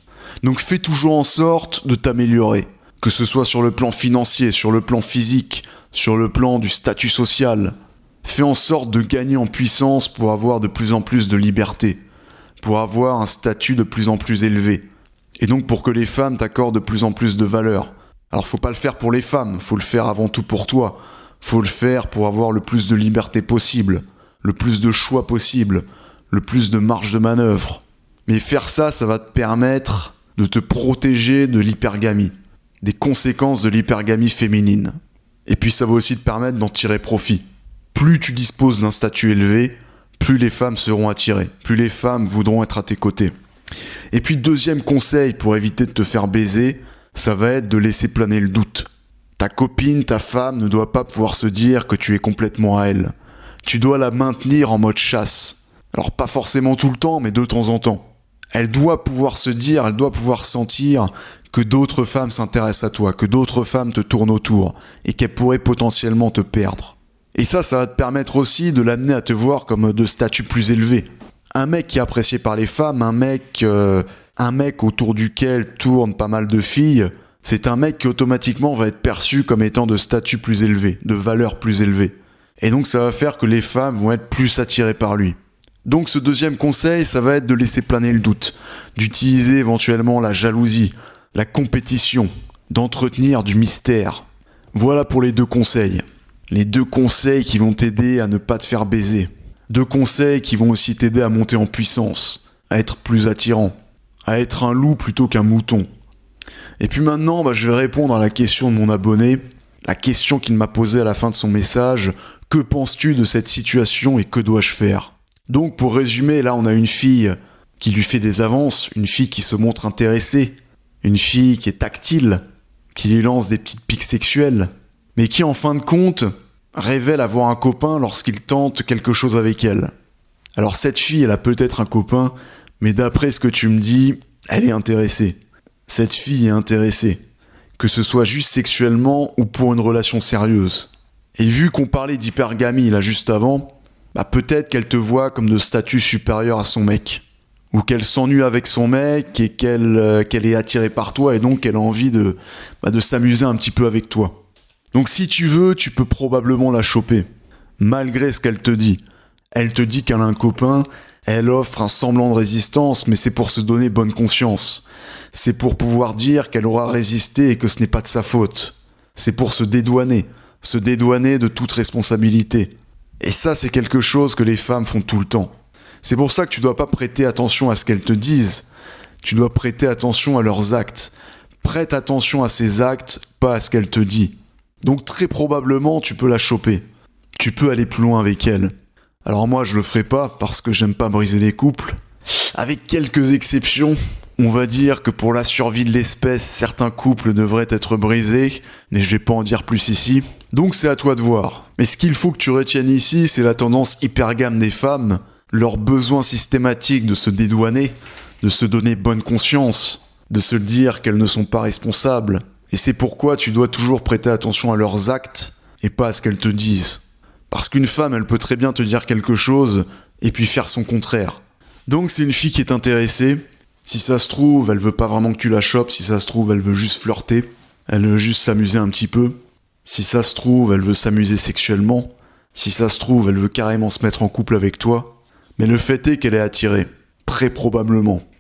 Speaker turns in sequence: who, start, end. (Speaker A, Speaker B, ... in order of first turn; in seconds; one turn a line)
Speaker A: 0.4-12.0
Speaker A: 12.6-14.8
Speaker A: 15.4-35.0
Speaker A: 35.5-43.3
Speaker A: 44.1-53.1
Speaker A: 53.6-103.7
Speaker A: 104.3-105.9
Speaker A: 106.8-122.4
Speaker A: 122.9-129.9
Speaker A: 130.6-135.4
Speaker A: 135.9-137.2
Speaker A: 137.8-154.4
Speaker A: 154.9-157.3
Speaker A: 157.8-159.0
Speaker A: 159.5-175.5
Speaker A: 176.0-178.7
Speaker A: 179.2-186.8
Speaker A: 187.4-188.7
Speaker A: 189.2-192.0
Speaker A: 192.5-238.2